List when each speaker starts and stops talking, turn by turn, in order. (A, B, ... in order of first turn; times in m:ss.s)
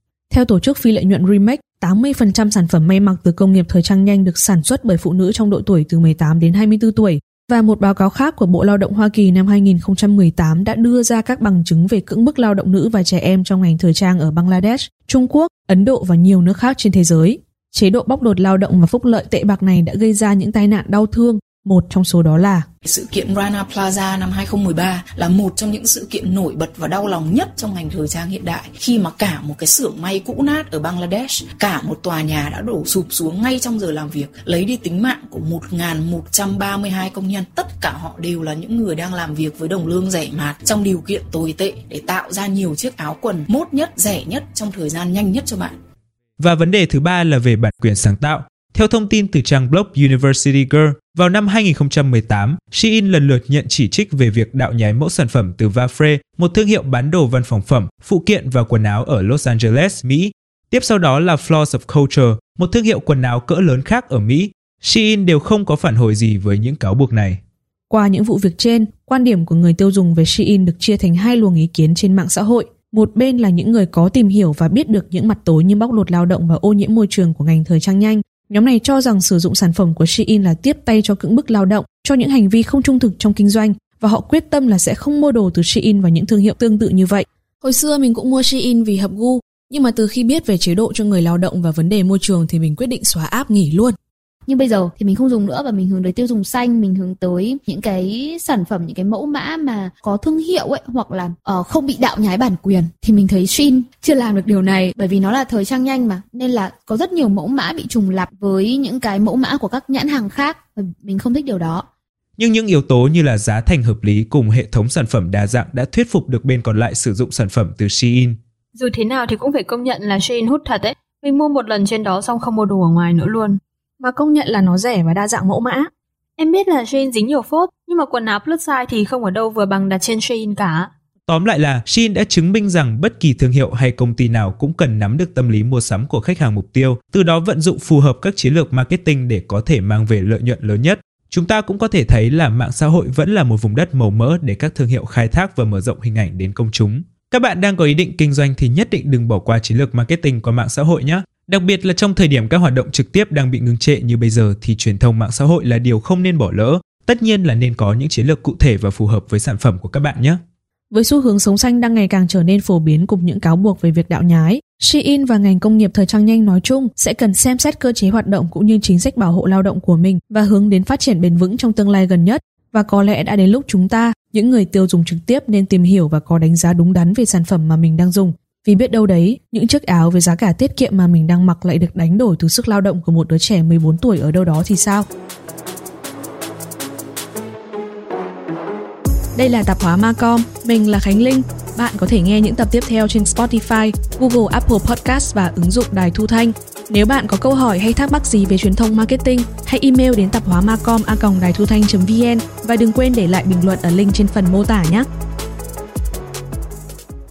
0:00.3-0:22.6 A
0:22.8-0:45.8 B
0:46.4-1:07.4 C
1:07.9-1:34.0 A
1:34.5-1:51.8 D
1:52.4-1:58.4 C
1:58.8-2:03.6 E
2:04.0-2:05.9 A
2:06.4-2:10.9 E
2:11.3-2:40.4 C
2:40.9-3:05.0 A
3:09.4-3:25.1 A